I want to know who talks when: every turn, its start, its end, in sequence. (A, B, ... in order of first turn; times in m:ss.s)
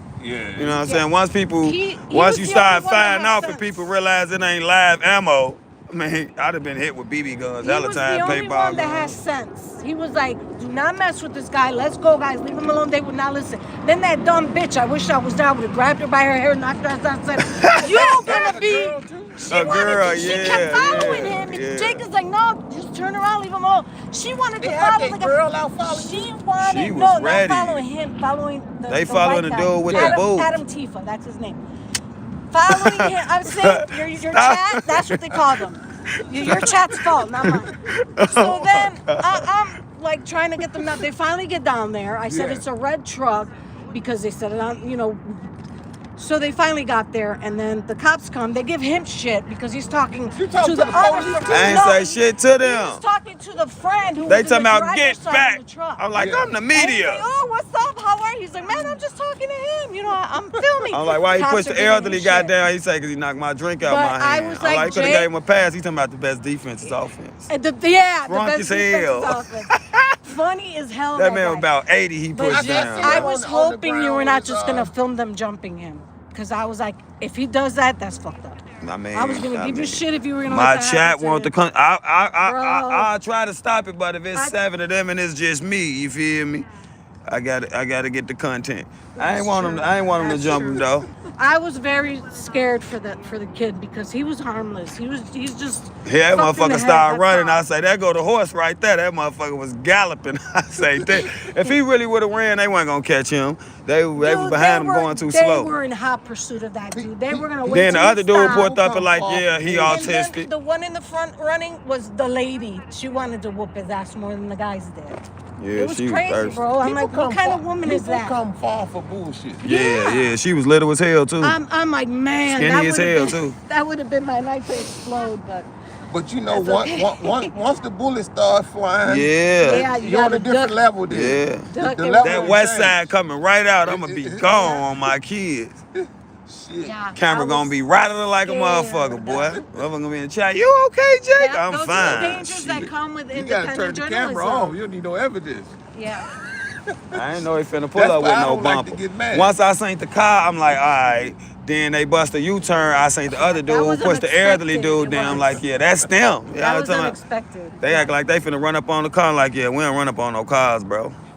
0:00.2-0:00.9 A
0:00.6-0:09.2 B
0:00.8-0:01.1 C
0:01.6-0:03.9 C
0:07.6-0:31.6 C
0:17.6-0:18.1 B
0:17.8-0:19.7 A
0:19.5-0:22.0 B
0:24.6-0:26.3 A
0:26.6-0:27.8 B
0:28.9-0:30.6 B
0:32.5-0:45.5 C
0:32.7-0:35.6 B
0:36.3-0:36.8 B
0:37.4-0:39.5 B
0:42.3-0:42.6 A
0:46.2-0:56.0 C
0:50.4-0:51.8 A
0:51.5-0:53.0 B
0:54.2-0:57.3 B
0:56.2-0:56.6 A
0:56.7-1:02.6 C
1:00.9-1:07.5 B
1:03.8-1:05.3 C
1:07.5-1:09.7 C
1:08.3-1:10.2 B
1:10.2-1:11.7 C
1:11.2-1:13.3 B
1:12.3-1:21.5 C
1:12.5-1:14.9 A
1:18.8-1:26.7 B
1:22.4-1:23.1 C
1:27.3-1:31.1 B
1:29.2-1:37.6 C
1:36.0-1:45.7 B
1:41.0-1:41.4 A
1:44.2-1:48.7 C
1:46.9-1:50.2 A
1:47.7-1:50.5 B
1:49.8-1:55.2 C
1:55.6-1:56.6 B
1:55.8-1:58.4 C
1:56.8-1:59.6 A
1:59.6-2:00.4 C
1:59.6-2:01.6 B
2:01.4-2:05.7 C
2:02.5-2:03.6 B
2:06.1-2:13.0 A
2:06.5-2:07.5 C
2:09.0-2:09.9 B
2:09.6-2:10.8 C
2:11.1-2:11.7 B
2:11.7-2:12.6 C
2:12.2-2:15.8 B
2:13.8-2:15.1 A
2:16.0-2:17.0 A
2:16.8-2:17.8 C
2:17.2-2:22.9 B
2:18.4-2:19.6 C
2:19.4-2:19.8 A
2:21.4-2:24.8 C
2:21.9-2:22.3 A
2:23.3-2:25.8 A
2:25.9-2:26.3 C
2:26.9-2:27.2 A
2:27.1-2:37.2 B
2:28.0-2:29.6 A
2:33.4-2:35.6 C
2:36.6-2:38.1 C
2:37.8-2:41.2 B